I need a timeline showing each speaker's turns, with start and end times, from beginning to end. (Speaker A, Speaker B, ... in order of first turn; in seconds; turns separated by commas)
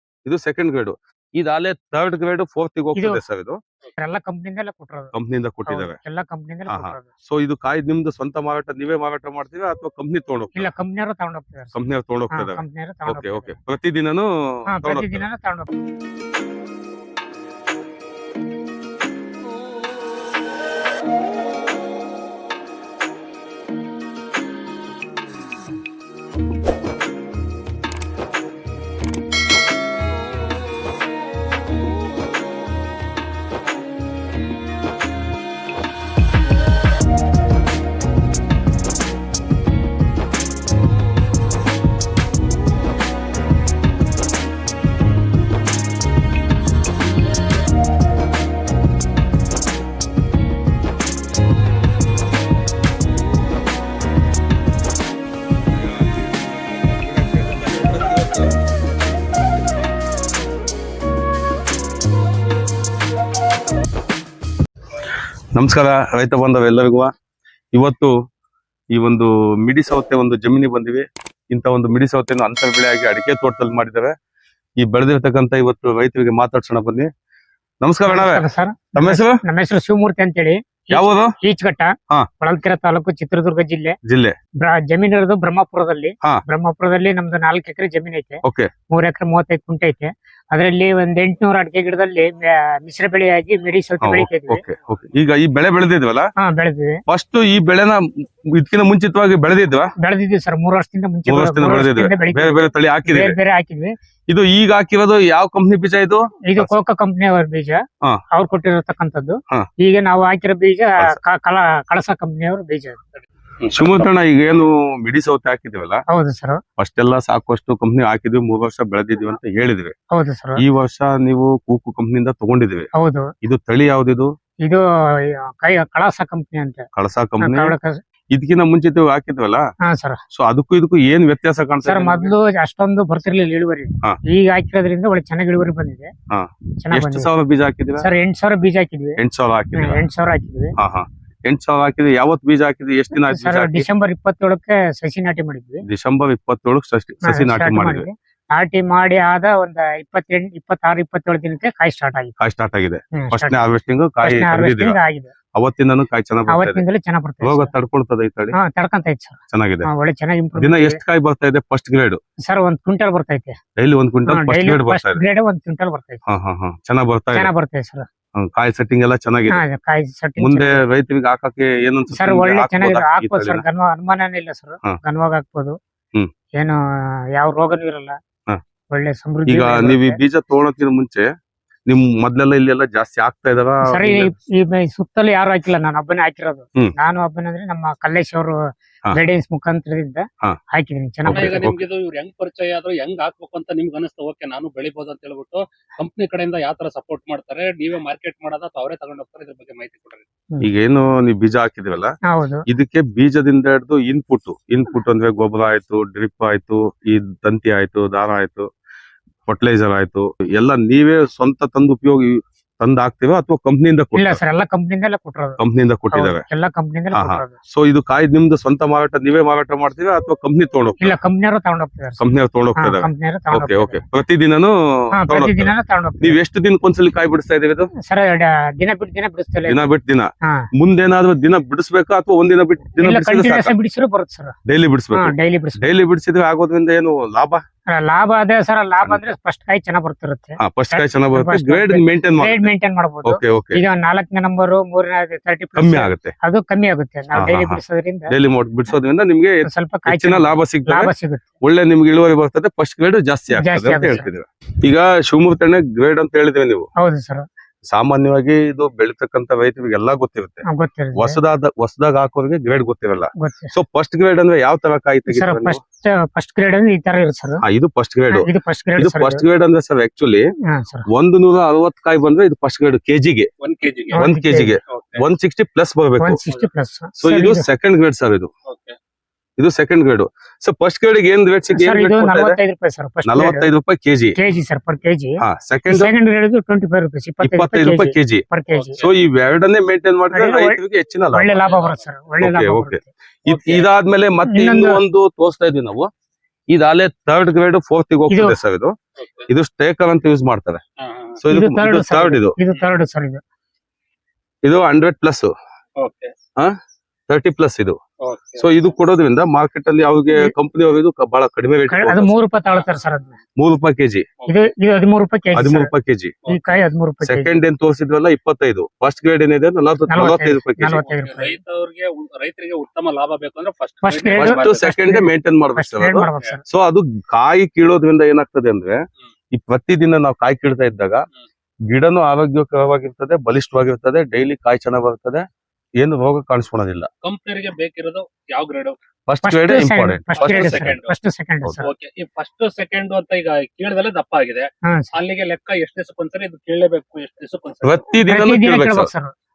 Speaker A: 0.2-3.6, Speaker B: 3.0-3.2, Speaker B: 4.0-5.1, Speaker A: 5.1-6.0, Speaker B: 5.7-7.1, Speaker A: 6.7-10.7, Speaker B: 10.5-11.7, Speaker A: 11.7-15.2, Speaker B: 12.3-13.6, Speaker B: 14.7-15.7, Speaker A: 57.1-58.6, Speaker A: 65.5-67.1, Speaker A: 67.7-68.1, Speaker A: 68.9-74.1, Speaker A: 74.8-77.1, Speaker A: 77.8-78.5, Speaker B: 78.1-84.0, Speaker A: 79.0-79.4, Speaker A: 80.9-81.3, Speaker A: 84.1-84.4, Speaker B: 84.6-94.6, Speaker A: 88.4-88.7, Speaker A: 94.0-96.3, Speaker B: 96.4-97.0, Speaker A: 97.1-99.9, Speaker B: 100.0-103.9, Speaker A: 101.3-103.4, Speaker A: 104.3-106.7, Speaker B: 106.5-113.0, Speaker C: 113.6-114.0, Speaker A: 113.7-116.0, Speaker B: 116.1-116.6, Speaker A: 116.8-119.9, Speaker B: 120.1-120.6, Speaker A: 120.6-122.9, Speaker B: 123.0-123.3, Speaker A: 123.4-124.3, Speaker B: 124.6-126.9, Speaker A: 126.9-127.7, Speaker B: 127.4-128.0, Speaker A: 128.3-129.6, Speaker B: 129.8-130.2, Speaker A: 130.3-132.3, Speaker B: 131.8-136.1, Speaker A: 136.3-138.0, Speaker B: 136.8-137.3, Speaker B: 138.0-139.2, Speaker A: 139.2-140.1, Speaker B: 139.7-140.7, Speaker A: 140.8-143.8, Speaker B: 143.2-145.8, Speaker A: 145.8-148.1, Speaker B: 147.2-152.3, Speaker A: 152.4-154.9, Speaker B: 153.1-153.6, Speaker B: 154.2-155.3, Speaker A: 155.5-156.8, Speaker B: 156.5-157.7, Speaker A: 157.4-158.6, Speaker B: 158.5-161.0, Speaker A: 159.5-159.9, Speaker A: 160.6-162.2, Speaker B: 162.4-163.6, Speaker A: 163.8-165.2, Speaker B: 164.2-166.2, Speaker A: 166.2-167.5, Speaker B: 167.3-168.1, Speaker A: 168.3-169.6, Speaker B: 169.5-170.8, Speaker A: 170.4-173.6, Speaker B: 172.1-175.8, Speaker B: 176.6-178.2, Speaker B: 178.9-180.2, Speaker A: 179.5-181.3, Speaker A: 181.9-184.3, Speaker B: 183.8-191.6, Speaker A: 191.2-191.8, Speaker C: 191.3-200.2, Speaker A: 200.6-202.2, Speaker B: 202.2-202.7, Speaker A: 202.7-208.7, Speaker A: 209.5-214.4, Speaker B: 214.1-215.6, Speaker A: 215.6-216.4, Speaker B: 216.1-217.6, Speaker A: 217.1-221.2, Speaker B: 221.0-222.2, Speaker A: 222.2-227.9, Speaker B: 222.8-224.0, Speaker B: 225.1-226.4, Speaker B: 228.0-229.9, Speaker A: 229.7-233.7, Speaker B: 233.0-234.6, Speaker A: 234.7-237.6, Speaker B: 235.1-235.9, Speaker B: 237.9-248.3, Speaker A: 240.6-242.7, Speaker A: 243.2-243.8, Speaker A: 245.8-246.3, Speaker A: 247.3-251.1, Speaker B: 249.6-251.4, Speaker A: 251.6-256.9, Speaker B: 253.5-254.3, Speaker B: 257.0-257.4, Speaker A: 257.9-260.6, Speaker B: 260.6-261.4, Speaker A: 261.1-265.8, Speaker B: 263.4-263.7, Speaker B: 265.3-267.6, Speaker A: 267.6-270.5, Speaker B: 268.3-269.4, Speaker B: 270.7-271.1, Speaker A: 271.1-273.5, Speaker C: 273.6-274.2, Speaker B: 274.1-274.7, Speaker A: 274.1-276.4, Speaker C: 274.9-275.2, Speaker B: 276.2-277.6, Speaker A: 277.2-278.5, Speaker C: 278.6-278.9, Speaker A: 279.6-282.6, Speaker B: 281.7-283.7, Speaker A: 283.2-284.4, Speaker B: 284.4-289.0, Speaker A: 285.4-286.1, Speaker A: 287.4-288.5, Speaker C: 288.7-289.1, Speaker A: 289.0-291.6, Speaker B: 290.3-290.8, Speaker B: 291.3-293.1, Speaker C: 291.6-292.0, Speaker A: 292.4-296.1, Speaker C: 293.4-293.9, Speaker B: 294.4-295.0, Speaker A: 296.7-298.9, Speaker B: 298.3-298.6, Speaker C: 299.2-299.5, Speaker A: 299.5-300.8, Speaker C: 301.0-301.4, Speaker A: 301.4-302.6, Speaker B: 301.5-303.4, Speaker A: 304.6-305.5, Speaker C: 306.0-306.3, Speaker A: 307.3-308.0, Speaker C: 308.2-308.7, Speaker A: 308.6-312.4, Speaker B: 311.9-313.4, Speaker A: 313.6-314.3, Speaker C: 314.4-314.7, Speaker B: 314.5-315.9, Speaker A: 315.5-316.4, Speaker C: 316.4-316.9, Speaker B: 316.5-317.6, Speaker A: 317.2-321.1, Speaker B: 320.1-321.6, Speaker C: 321.1-324.9, Speaker B: 324.0-326.6, Speaker A: 324.4-331.2, Speaker A: 331.9-335.4, Speaker A: 336.0-337.1, Speaker C: 337.2-339.0, Speaker A: 339.3-340.9, Speaker B: 339.4-341.9, Speaker C: 340.4-341.1, Speaker C: 341.8-348.0, Speaker B: 344.8-345.1, Speaker A: 347.8-349.1, Speaker B: 348.2-349.3